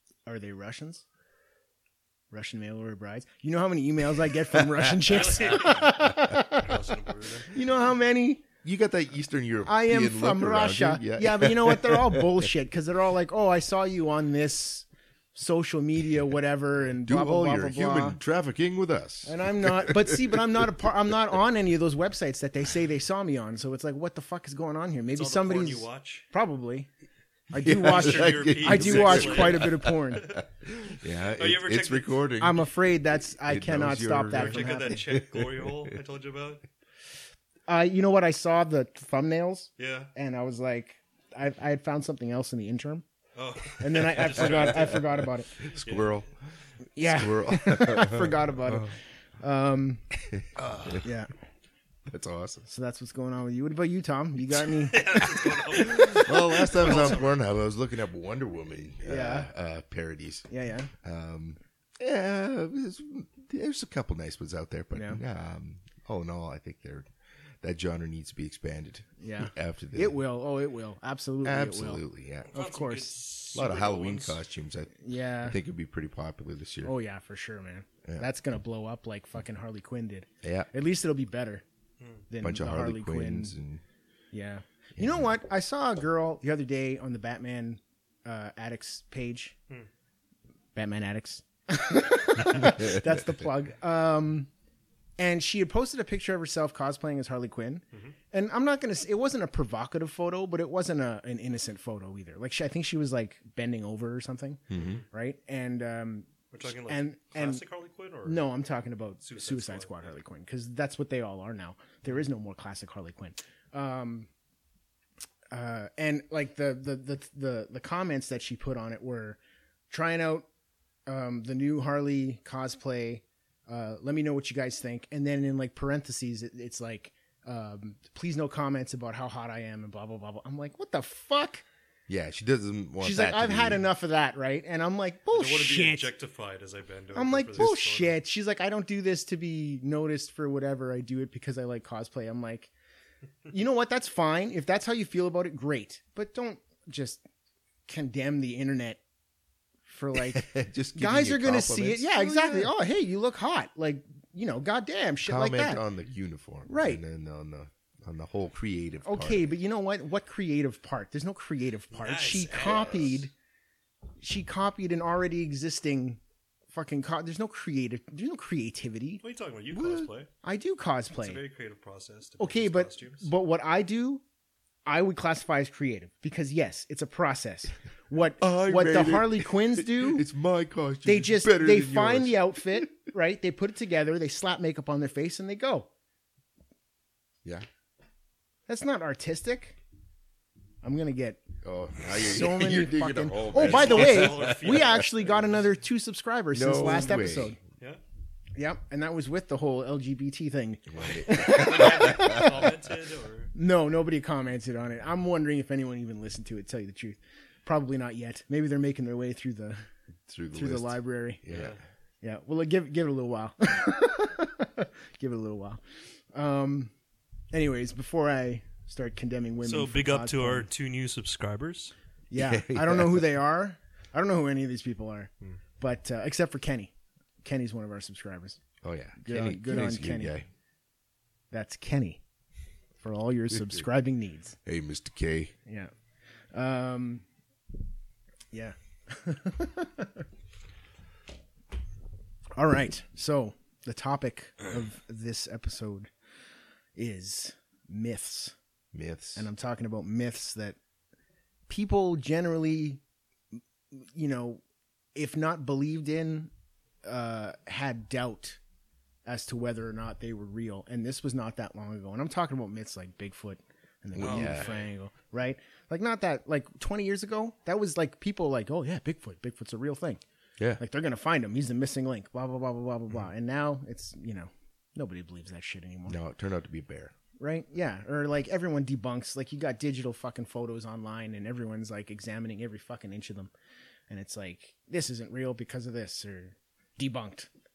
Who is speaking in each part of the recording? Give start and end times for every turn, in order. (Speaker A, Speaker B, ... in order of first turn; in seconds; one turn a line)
Speaker A: 0.2-1.0
Speaker A: 2.3-6.7
Speaker B: 4.5-5.0
Speaker C: 5.0-7.5
Speaker A: 7.4-8.4
Speaker B: 8.6-12.5
Speaker A: 9.6-18.2
Speaker B: 17.0-20.6
Speaker A: 19.2-26.9
Speaker C: 25.1-26.2
Speaker A: 27.5-30.3
Speaker B: 27.5-36.0
Speaker C: 27.7-30.4
Speaker C: 31.3-32.2
Speaker A: 32.4-35.0
Speaker C: 34.2-36.6
Speaker A: 37.7-43.0
Speaker C: 39.8-40.1
Speaker C: 43.3-46.2
Speaker A: 43.8-45.5
Speaker B: 44.5-44.7
Speaker B: 45.6-46.4
Speaker A: 47.0-50.0
Speaker B: 47.0-48.9
Speaker B: 50.2-51.1
Speaker C: 50.7-51.0
Speaker A: 51.0-51.3
Speaker B: 52.1-52.7
Speaker A: 52.7-55.2
Speaker C: 54.6-57.4
Speaker B: 55.2-60.5
Speaker A: 59.0-59.5
Speaker A: 60.5-60.9
Speaker B: 61.0-67.1
Speaker A: 64.9-65.2
Speaker B: 67.6-70.2
Speaker A: 69.2-73.1
Speaker B: 71.4-72.5
Speaker C: 72.5-74.4
Speaker B: 73.5-76.9
Speaker A: 75.0-75.6
Speaker A: 76.8-81.6
Speaker B: 80.4-80.7
Speaker C: 82.0-82.2
Speaker A: 82.3-83.5
Speaker B: 82.4-83.8
Speaker A: 84.3-89.5
Speaker A: 90.7-94.5
Speaker B: 92.4-93.3
Speaker A: 95.2-107.6
Speaker B: 104.7-105.0
Speaker C: 106.5-108.5
Speaker A: 108.2-114.3
Speaker C: 109.2-110.1
Speaker A: 115.5-119.4
Speaker A: 119.9-120.4
Speaker A: 121.1-131.6
Speaker B: 132.1-133.8
Speaker A: 133.0-136.1
Speaker C: 135.3-138.2
Speaker A: 137.1-142.7
Speaker A: 143.5-147.2
Speaker A: 147.9-149.0
Speaker A: 149.9-155.8
Speaker B: 150.1-152.7
Speaker B: 155.2-159.4
Speaker A: 156.7-157.0
Speaker A: 159.0-163.3
Speaker C: 161.9-163.2
Speaker B: 162.6-163.1
Speaker A: 164.2-166.2
Speaker A: 166.7-169.2
Speaker C: 169.2-170.3
Speaker B: 169.7-170.1
Speaker A: 170.4-171.4
Speaker C: 171.2-173.3
Speaker A: 172.4-174.2
Speaker A: 174.8-180.2
Speaker B: 178.4-182.9
Speaker A: 181.0-185.9
Speaker A: 188.7-189.8
Speaker A: 190.8-191.4
Speaker B: 191.6-195.0
Speaker A: 192.1-197.6
Speaker C: 193.5-195.5
Speaker B: 196.5-197.6
Speaker A: 198.6-202.7
Speaker B: 200.9-202.7
Speaker C: 201.4-203.5
Speaker A: 203.5-209.8
Speaker B: 210.3-211.8
Speaker A: 210.5-211.4
Speaker C: 211.5-211.8
Speaker A: 212.2-215.8
Speaker A: 216.3-216.9
Speaker A: 217.5-220.7
Speaker C: 219.6-221.9
Speaker A: 222.3-228.6
Speaker B: 222.3-223.3
Speaker B: 228.8-230.5
Speaker A: 229.2-230.3
Speaker A: 231.5-232.2
Speaker A: 233.0-234.6
Speaker B: 234.6-235.5
Speaker A: 235.7-235.9
Speaker A: 236.5-237.2
Speaker A: 238.5-240.2
Speaker A: 242.6-246.1
Speaker A: 246.9-248.5
Speaker B: 248.9-249.5
Speaker A: 249.3-250.8
Speaker A: 251.7-253.0
Speaker A: 253.9-254.6
Speaker A: 255.1-256.5
Speaker A: 257.0-258.6
Speaker A: 259.2-270.2
Speaker B: 264.1-264.7
Speaker C: 264.2-264.9
Speaker A: 270.8-276.2
Speaker B: 276.1-277.1
Speaker A: 277.4-283.5
Speaker A: 284.1-287.5